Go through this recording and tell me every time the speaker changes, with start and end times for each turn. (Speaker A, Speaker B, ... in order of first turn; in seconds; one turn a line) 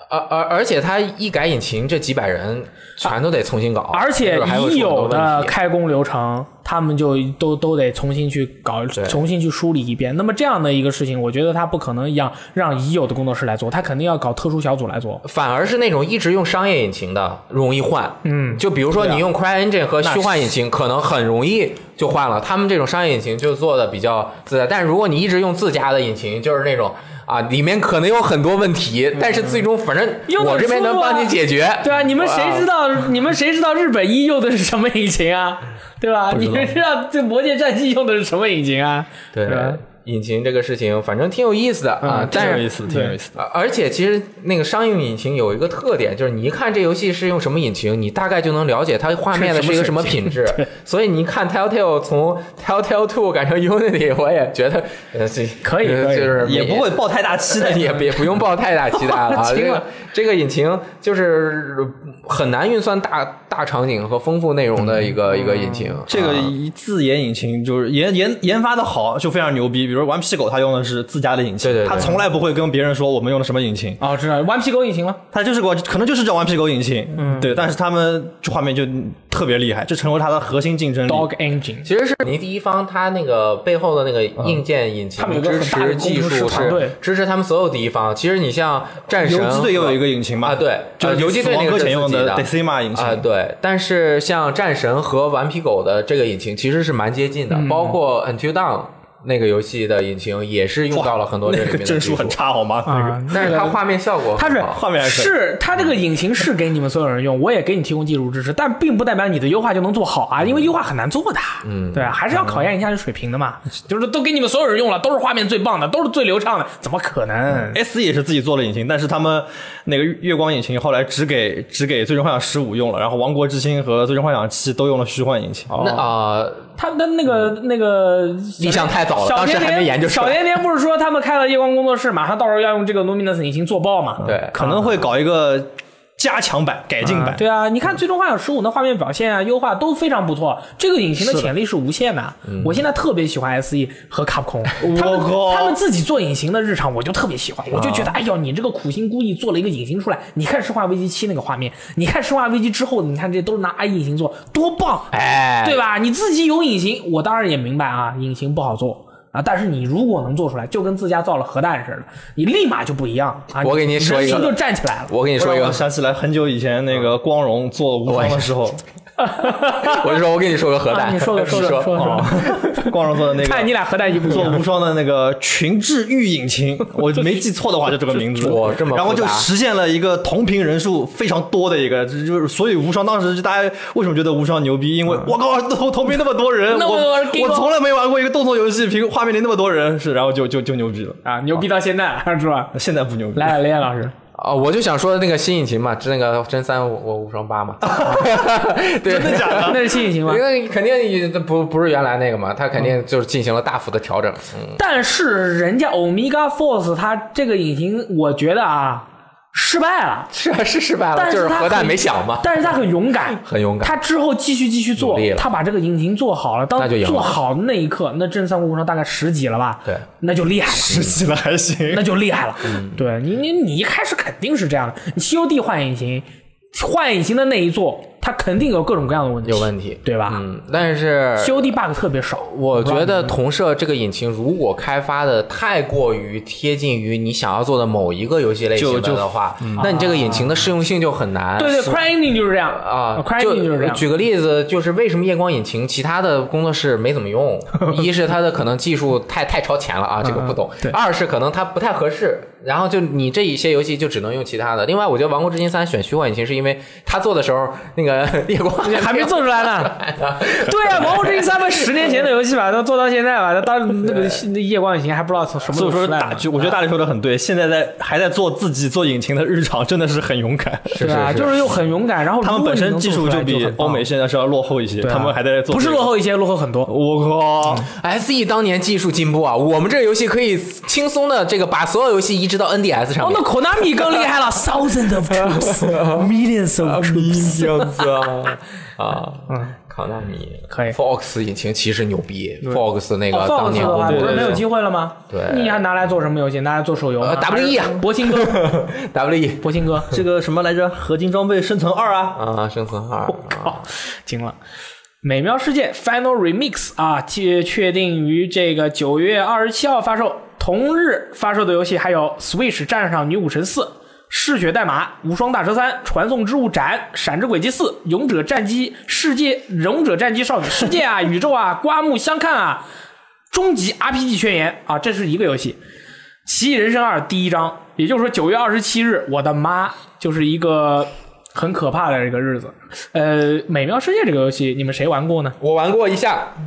Speaker A: 0.1-5.5
Speaker B: 3.9-15.2
Speaker A: 15.2-32.7
Speaker B: 18.2-18.6
Speaker C: 19.0-19.2
Speaker C: 20.0-20.5
Speaker B: 30.3-39.8
Speaker C: 36.3-36.8
Speaker A: 39.3-42.7
Speaker B: 42.0-43.1
Speaker C: 42.3-43.4
Speaker A: 43.4-66.5
Speaker B: 49.3-50.7
Speaker B: 55.6-56.4
Speaker C: 56.4-58.2
Speaker B: 59.2-59.8
Speaker B: 65.3-66.0
Speaker C: 66.1-74.0
Speaker A: 71.6-72.2
Speaker B: 74.0-75.2
Speaker C: 75.3-81.3
Speaker B: 77.2-77.5
Speaker B: 81.1-81.9
Speaker A: 81.8-102.4
Speaker B: 85.2-87.0
Speaker C: 89.2-93.2
Speaker B: 97.5-98.0
Speaker C: 100.9-103.6
Speaker B: 102.8-103.8
Speaker A: 103.3-104.8
Speaker B: 104.3-117.8
Speaker C: 104.7-105.3
Speaker A: 110.4-110.7
Speaker A: 111.6-112.2
Speaker C: 117.7-125.7
Speaker B: 125.7-126.0
Speaker A: 125.8-126.7
Speaker B: 126.8-134.7
Speaker A: 128.6-130.4
Speaker C: 134.2-137.4
Speaker A: 134.2-134.6
Speaker B: 137.0-155.1
Speaker C: 141.2-141.5
Speaker A: 142.4-142.8
Speaker C: 144.8-145.8
Speaker C: 147.7-148.1
Speaker A: 155.1-155.8
Speaker B: 155.6-165.1
Speaker A: 163.6-164.6
Speaker A: 165.1-165.8
Speaker C: 165.4-168.8
Speaker A: 168.1-168.5
Speaker B: 169.2-170.1
Speaker A: 169.8-172.3
Speaker B: 170.9-174.6
Speaker C: 171.9-191.2
Speaker A: 178.3-179.5
Speaker B: 186.7-187.7
Speaker B: 191.2-192.7
Speaker C: 192.7-193.6
Speaker B: 193.3-194.1
Speaker A: 194.3-204.8
Speaker C: 197.8-198.5
Speaker C: 199.1-199.8
Speaker B: 199.1-200.4
Speaker B: 204.8-210.3
Speaker A: 210.3-212.7
Speaker B: 211.1-221.1
Speaker A: 213.3-214.0
Speaker A: 215.0-215.5
Speaker A: 216.8-217.4
Speaker C: 220.7-222.1
Speaker A: 220.9-221.2
Speaker B: 221.9-230.4
Speaker A: 222.6-223.0
Speaker A: 229.4-231.7
Speaker B: 231.4-233.3
Speaker A: 232.4-242.0
Speaker C: 238.8-239.8
Speaker B: 239.8-240.5
Speaker B: 241.6-244.0
Speaker A: 242.7-262.0
Speaker B: 250.2-250.9
Speaker B: 258.8-266.8
Speaker A: 264.1-264.3
Speaker C: 265.7-271.3
Speaker A: 270.9-271.6
Speaker B: 271.0-274.1
Speaker C: 272.4-276.1
Speaker B: 275.0-276.9
Speaker C: 276.9-277.9
Speaker A: 277.9-284.2
Speaker B: 283.2-288.0
Speaker A: 285.3-286.2
Speaker A: 286.8-294.6
Speaker B: 289.5-289.8
Speaker B: 290.7-291.0
Speaker B: 292.6-298.7
Speaker C: 293.8-294.6
Speaker A: 295.3-295.8
Speaker A: 297.2-299.7
Speaker B: 299.6-300.1
Speaker C: 300.1-302.4
Speaker A: 302.3-303.8
Speaker B: 303.3-304.6
Speaker B: 305.2-322.8
Speaker B: 323.5-325.8
Speaker B: 326.4-335.6
Speaker A: 335.6-336.6